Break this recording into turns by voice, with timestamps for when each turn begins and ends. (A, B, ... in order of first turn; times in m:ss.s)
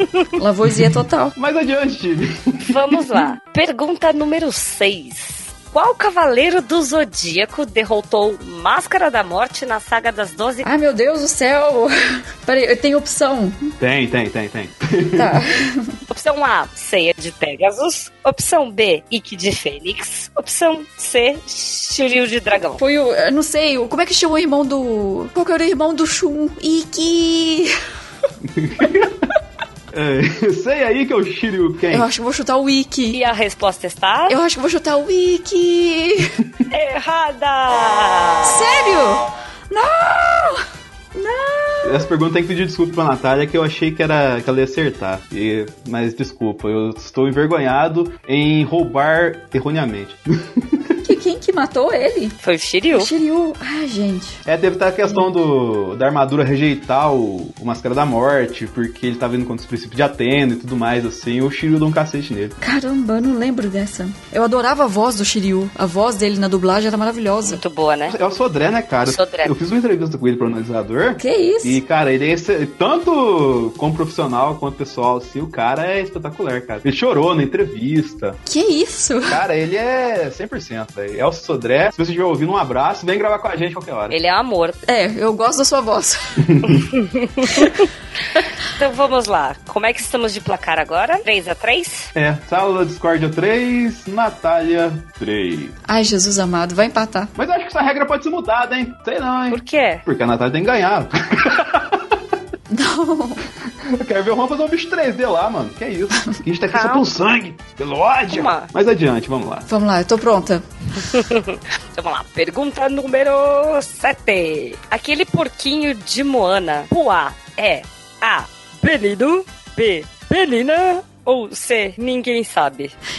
0:00.4-0:01.4 A
0:01.4-0:02.8 B
0:02.6-0:10.7 C
0:10.6-0:13.7 A
0:13.8-0:15.4 B
0:15.2-0:15.9 A
0:16.1-0:22.8 C
0:22.8-0:27.7 A
0:28.4-0:29.3 B
0:29.9-0:32.1 B
0:31.9-0:33.2 A
0:33.1-0:34.4 C
0:34.3-0:36.4 A
0:36.7-0:38.6 C
0:38.4-0:40.6 A
0:41.2-0:42.1 A
0:41.8-0:51.0 B
0:51.0-0:52.4 A
0:52.4-0:53.1 C
0:52.9-0:54.4 A
0:54.5-1:02.6 B
0:55.0-0:55.3 A
1:02.6-1:07.6 A
1:07.4-1:08.2 C
1:08.1-1:18.4 B
1:09.0-1:09.5 C
1:11.2-1:11.8 A
1:18.5-1:19.4 A
1:19.3-1:24.2 B
1:24.1-1:24.8 C
1:24.9-1:26.5 A
1:26.5-1:26.8 B
1:26.9-1:27.9 C
1:28.6-1:32.1 C
1:32.2-1:35.8 B
1:35.9-1:37.3 A
1:37.4-1:42.2 B
1:39.5-1:40.0 C
1:42.7-1:43.4 A
1:43.8-1:49.7 B
1:46.7-1:47.0 C
1:48.3-1:48.7 C
1:49.7-1:50.6 A
1:51.0-2:02.9 C